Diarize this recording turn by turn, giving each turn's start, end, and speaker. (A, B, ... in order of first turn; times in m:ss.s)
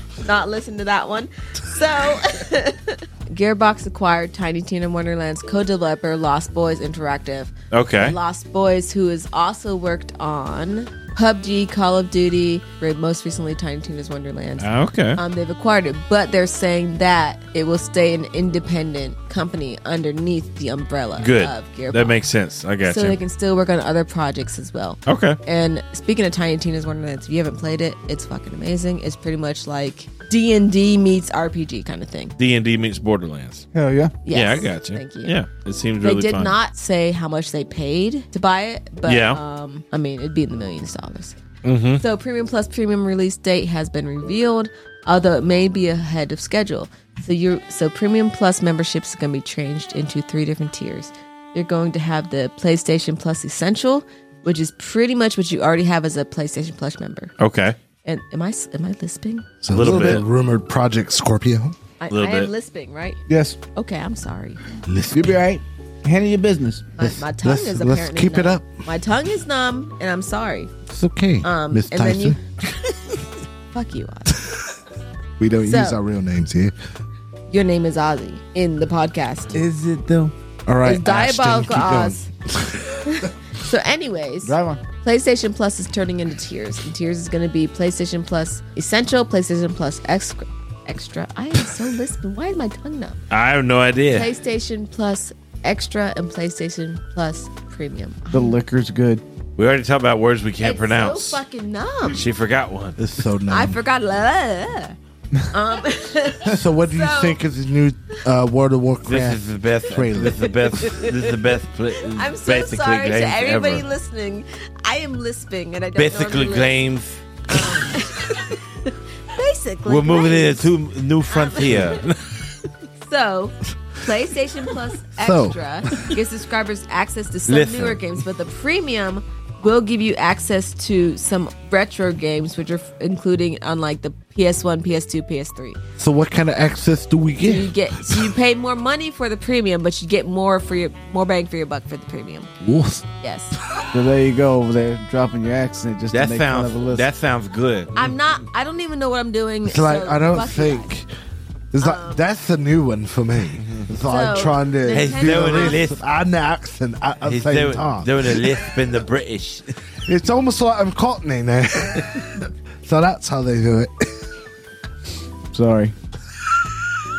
0:00.2-0:22.2 A
0:07.7-0:08.2 B
0:14.6-0:15.2 B
0:21.2-0:23.2 B
0:22.8-0:32.3 A
0:25.0-0:25.4 B
0:32.4-0:33.7 B
0:33.7-0:34.2 C
0:34.2-0:35.3 A
0:34.3-0:36.6 B
0:36.0-0:41.4 A
0:39.0-0:39.4 B
0:41.6-0:42.0 B
0:41.9-0:57.3 A
0:57.4-0:57.8 B
0:58.0-0:59.4 A
0:59.6-1:01.8 D
0:59.7-1:00.2 B
0:59.9-1:00.2 C
1:02.0-1:03.2 A
1:02.1-1:02.5 B
1:03.3-1:03.6 C
1:03.7-1:04.6 A
1:04.8-1:05.4 D
1:05.1-1:06.9 C
1:07.0-1:10.7 A
1:07.0-1:08.6 D
1:10.9-1:12.4 D
1:11.4-1:13.2 A
1:13.7-1:14.4 A
1:15.4-1:16.7 D
1:15.6-1:16.0 A
1:17.5-1:19.5 A
1:19.5-1:20.3 C
1:20.7-1:23.0 D
1:20.8-1:22.3 A
1:23.0-1:33.2 A
1:24.4-1:24.8 C
1:33.3-1:34.3 B
1:34.1-1:38.6 A
1:38.3-1:39.2 C
1:39.6-1:41.4 B
1:40.6-1:42.2 A
1:42.1-1:43.0 B
1:43.0-1:43.8 D
1:43.5-1:45.0 A
1:45.5-1:47.4 A
1:46.4-1:50.6 D
1:49.0-1:53.8 B
1:50.2-1:51.2 A
1:52.0-1:56.8 A
1:55.9-1:57.2 B
1:57.5-2:00.7 A
1:59.8-2:02.6 B
2:01.3-2:02.0 A
2:03.0-2:15.8 A
2:05.2-2:06.0 D
2:07.5-2:08.1 B
2:16.0-2:18.3 D
2:17.4-2:22.5 A
2:22.6-2:23.0 D
2:23.2-2:23.6 A
2:23.9-2:27.0 C
2:26.1-2:28.0 B
2:27.9-2:30.9 A
2:29.6-2:31.1 D
2:31.7-2:38.4 D
2:31.8-2:32.2 A
2:34.0-2:35.8 A
2:34.9-2:36.0 B
2:37.2-2:39.7 B
2:40.0-2:44.1 D
2:45.5-2:45.9 C